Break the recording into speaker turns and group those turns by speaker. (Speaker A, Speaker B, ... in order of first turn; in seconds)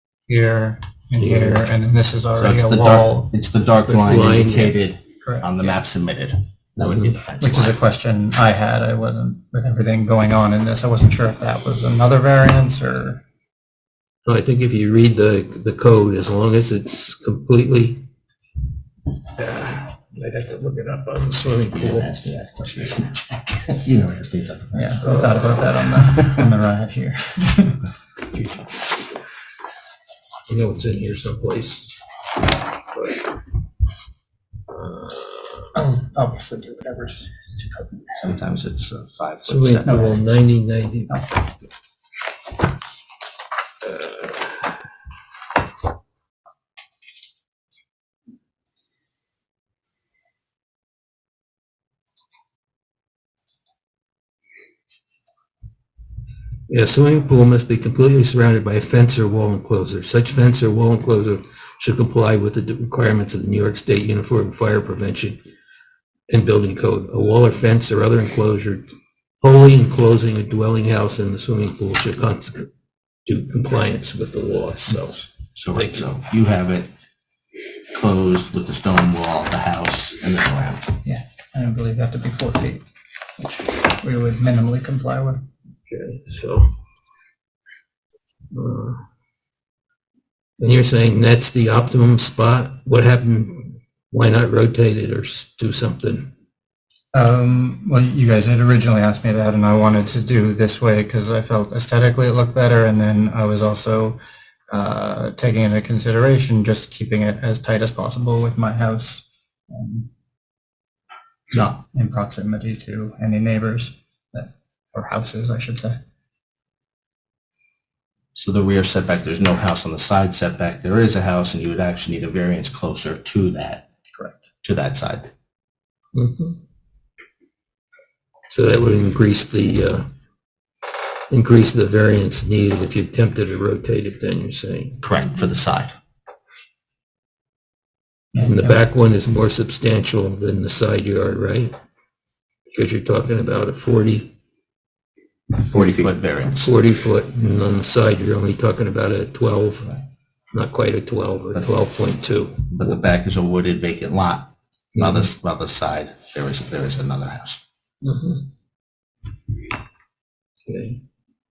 Speaker A: 0.3-3.3, 5.2-5.8, 7.4-13.2, 24.7-27.8, 35.8-38.1, 39.9-40.2, 81.0-82.8, 83.4-85.4, 97.1-104.2, 104.7-110.1, 111.9-116.0, 124.2-124.4, 138.3-138.8
Speaker B: 1.2-1.6, 3.9-4.8, 6.8-7.1, 14.3-18.0, 19.3-22.1, 30.5-31.9, 32.9-33.2, 34.7-35.8, 39.5-41.1, 56.7-65.4, 66.3-68.9, 69.4-72.7, 73.3-75.2, 75.7-76.1, 85.9-86.7, 88.5-89.0, 90.6-96.3, 126.2-126.6, 128.5-130.1, 131.3-135.0, 138.4-141.8, 142.7-144.3, 145.7-149.9, 150.5-152.7, 154.9-155.3, 158.0-158.5, 160.6-161.0
Speaker C: 2.4-7.8, 21.7-26.5, 38.1-40.2, 75.6-76.9, 77.9-80.9, 111.5-111.8, 118.3-123.8, 124.6-125.3, 135.0-135.9, 145.6-146.7, 152.7-157.6